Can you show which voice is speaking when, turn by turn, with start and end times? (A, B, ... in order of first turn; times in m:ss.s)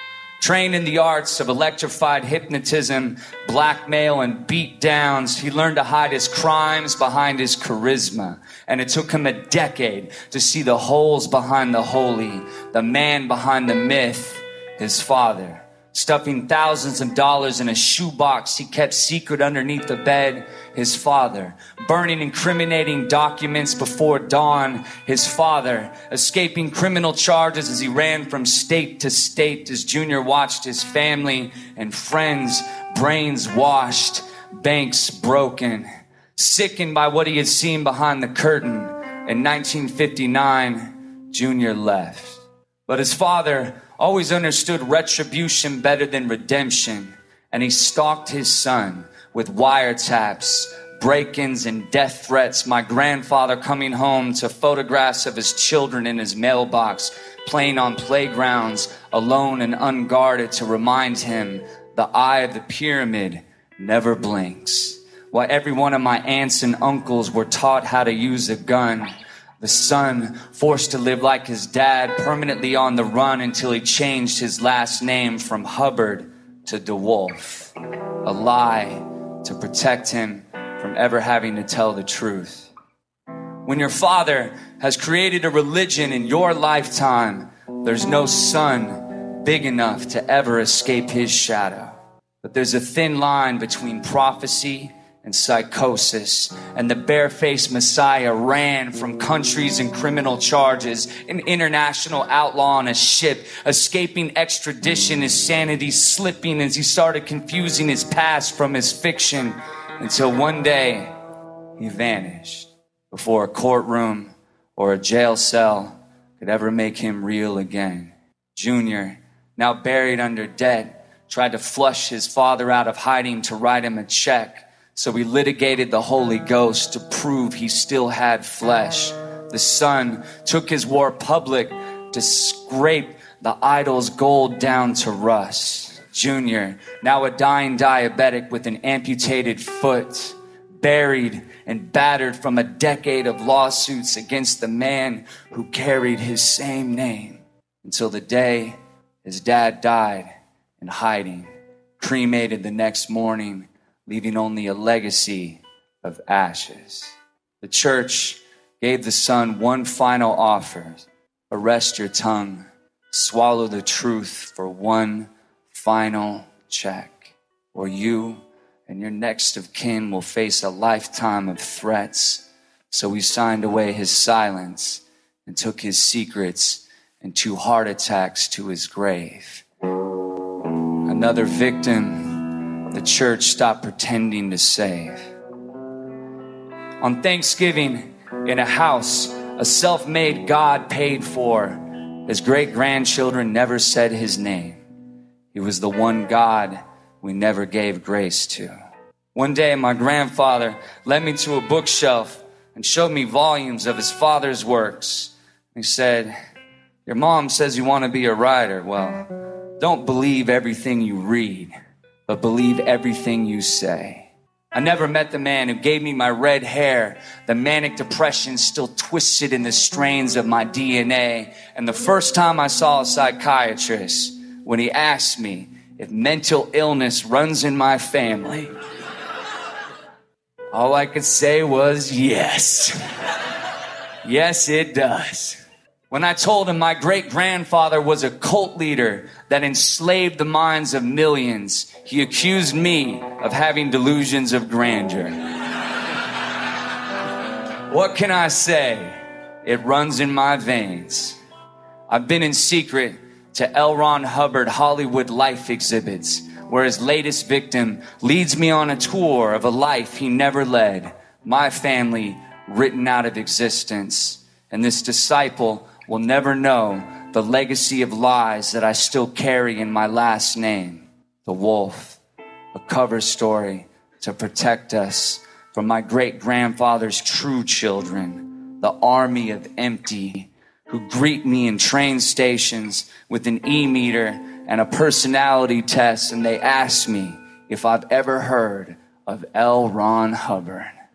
0:00.4-1:17.7 A
1:18.2-1:22.7 A
1:23.6-1:51.1 A
1:51.8-2:37.1 A
2:37.6-2:59.6 A
3:01.0-3:05.2 A
3:07.0-3:14.8 A
3:15.5-3:18.7 A
3:19.3-3:26.3 A
3:27.0-3:29.2 A
3:29.8-3:31.7 A
3:32.3-3:48.7 A
3:50.7-3:53.4 A
3:54.2-4:05.4 A
4:07.9-4:11.4 A
4:12.1-4:32.2 A
4:32.7-4:50.9 A